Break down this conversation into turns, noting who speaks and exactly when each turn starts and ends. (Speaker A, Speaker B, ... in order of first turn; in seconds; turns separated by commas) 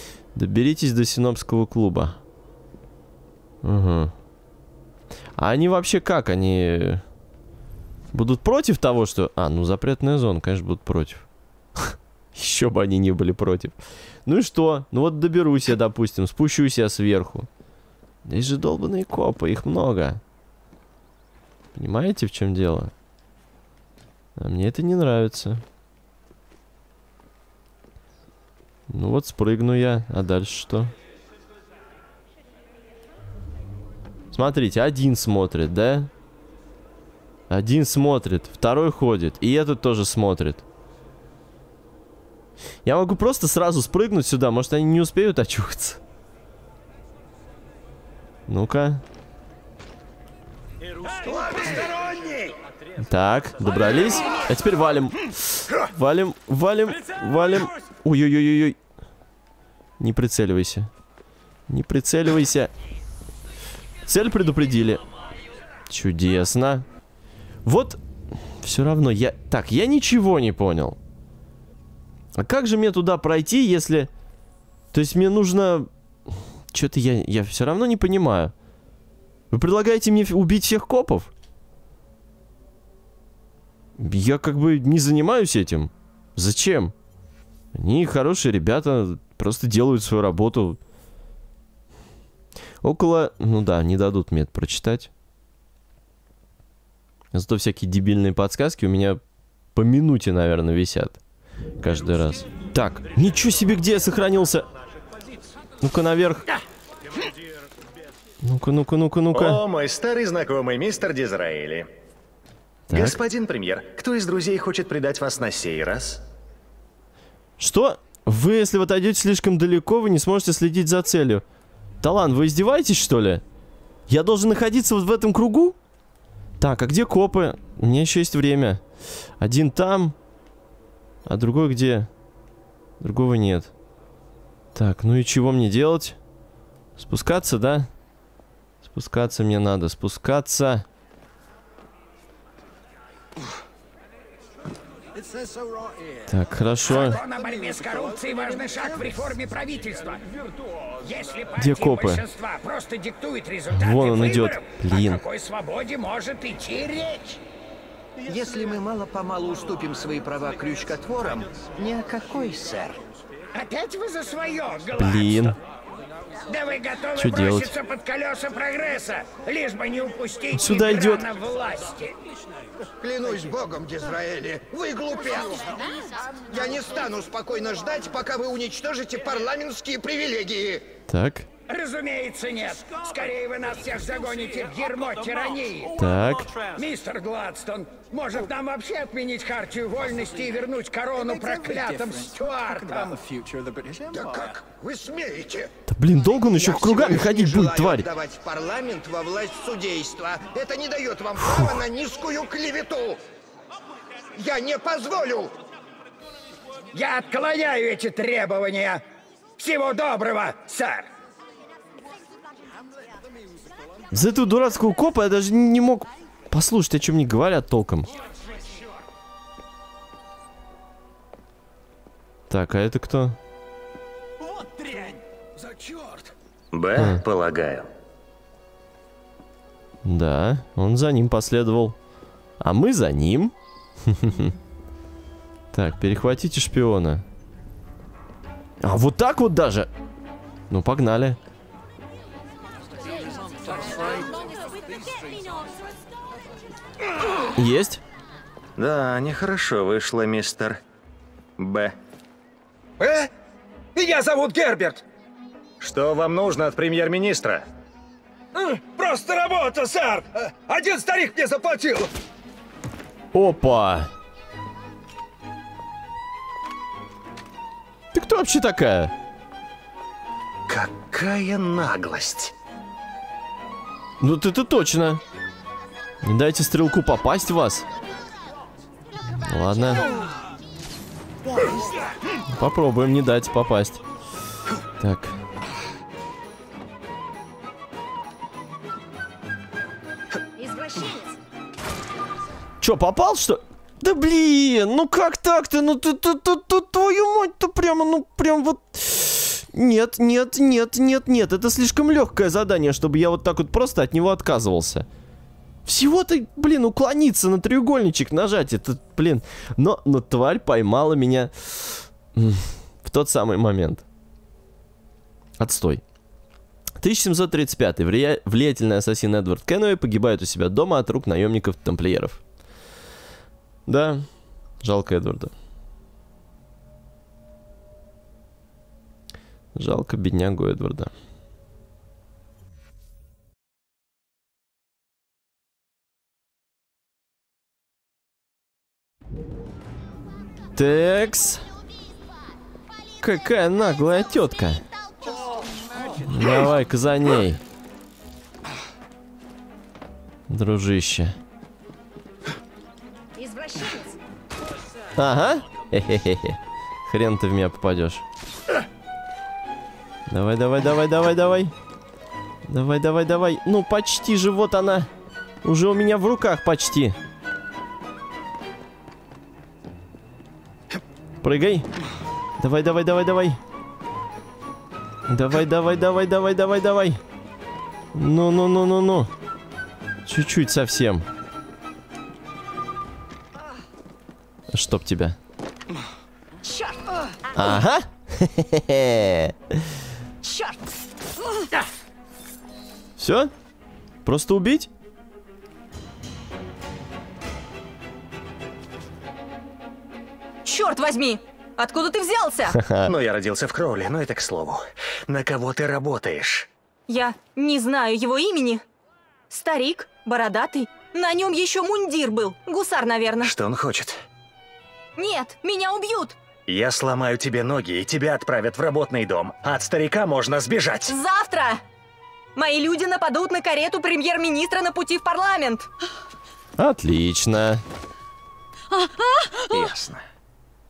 Speaker A: 0.3-2.2, Speaker A: 3.6-4.1, Speaker A: 5.4-7.0, Speaker A: 8.1-11.2, Speaker A: 11.8-17.5, Speaker A: 18.2-20.2, Speaker A: 21.8-22.9, Speaker A: 24.4-25.6, Speaker A: 28.9-30.9, Speaker A: 34.3-36.1, Speaker A: 37.5-40.6, Speaker A: 42.9-46.0, Speaker A: 48.5-49.0, Speaker B: 51.5-52.2, Speaker A: 53.0-58.8, Speaker A: 60.0-60.9, Speaker A: 61.7-62.7, Speaker A: 64.1-65.0, Speaker A: 65.9-66.8, Speaker A: 67.7-71.0, Speaker A: 72.4-74.1, Speaker A: 74.9-75.9, Speaker A: 76.7-78.5, Speaker A: 79.5-81.3, Speaker A: 84.0-86.9, Speaker A: 87.7-90.8, Speaker A: 92.8-95.1, Speaker A: 97.3-99.2, Speaker A: 99.8-101.2, Speaker A: 101.8-104.7, Speaker A: 105.8-106.5, Speaker A: 108.4-109.6, Speaker C: 109.3-111.9, Speaker A: 112.9-113.2, Speaker C: 112.9-116.2, Speaker A: 117.6-121.4, Speaker A: 122.0-123.4, Speaker A: 124.1-125.8, Speaker A: 126.6-128.8, Speaker A: 129.4-130.2, Speaker A: 131.3-132.1, Speaker A: 133.0-133.7, Speaker A: 134.8-136.2, Speaker A: 137.0-137.9, Speaker A: 138.8-140.8, Speaker A: 146.3-147.2, Speaker B: 146.8-150.4, Speaker B: 151.0-157.4, Speaker A: 151.6-152.2, Speaker A: 153.7-155.2, Speaker C: 158.3-163.0, Speaker B: 163.5-165.6, Speaker A: 165.0-165.6, Speaker B: 166.4-172.2, Speaker A: 167.2-167.7, Speaker A: 170.5-171.3, Speaker D: 172.9-180.9, Speaker A: 181.1-181.5, Speaker B: 181.7-186.0, Speaker A: 186.0-186.6, Speaker B: 186.6-193.5, Speaker D: 194.0-195.7, Speaker A: 195.9-198.1, Speaker D: 196.5-203.2, Speaker D: 204.3-205.5, Speaker B: 206.9-209.0, Speaker B: 209.6-211.1, Speaker A: 214.1-218.1, Speaker A: 222.5-223.4, Speaker B: 224.7-225.1, Speaker B: 225.6-226.1, Speaker C: 226.7-227.9, Speaker A: 227.0-227.2, Speaker A: 230.0-232.0, Speaker A: 232.6-233.5, Speaker A: 234.1-234.5, Speaker A: 235.7-237.2, Speaker A: 238.8-239.9, Speaker A: 240.7-241.4, Speaker E: 244.1-245.4, Speaker A: 247.5-248.0, Speaker C: 248.8-250.8, Speaker C: 251.6-251.9, Speaker B: 254.0-255.0, Speaker C: 255.8-257.6, Speaker B: 258.6-261.2, Speaker A: 263.3-264.1, Speaker A: 268.1-269.1, Speaker C: 270.7-272.5, Speaker A: 274.2-275.2, Speaker A: 276.2-277.9, Speaker A: 279.4-280.1, Speaker A: 282.5-284.0, Speaker A: 285.0-285.4, Speaker E: 290.6-291.4, Speaker A: 292.8-305.1, Speaker A: 305.9-314.1, Speaker A: 315.6-316.0, Speaker A: 317.0-322.4, Speaker A: 323.9-324.3, Speaker A: 324.8-325.5, Speaker A: 329.8-331.1, Speaker A: 340.8-341.6, Speaker A: 343.2-344.9, Speaker E: 345.3-345.6, Speaker A: 346.2-347.6, Speaker A: 350.5-351.4, Speaker E: 353.4-354.2, Speaker A: 355.2-358.2, Speaker A: 360.3-361.7, Speaker A: 362.7-365.1, Speaker A: 365.6-367.2, Speaker A: 371.4-371.9, Speaker A: 372.6-373.6, Speaker A: 375.3-377.2, Speaker A: 378.1-379.3, Speaker A: 380.3-381.3, Speaker A: 384.7-385.4, Speaker E: 386.6-387.8, Speaker A: 387.5-389.9, Speaker E: 390.4-390.9, Speaker A: 393.2-393.5, Speaker A: 394.2-394.9, Speaker F: 400.6-402.8, Speaker A: 402.7-403.1, Speaker C: 403.1-406.7, Speaker F: 407.1-408.9, Speaker F: 409.5-413.5, Speaker C: 413.4-414.2, Speaker F: 415.2-416.4, Speaker C: 416.7-421.2, Speaker F: 421.1-421.8, Speaker F: 422.6-425.9, Speaker A: 426.8-427.8, Speaker C: 429.7-430.2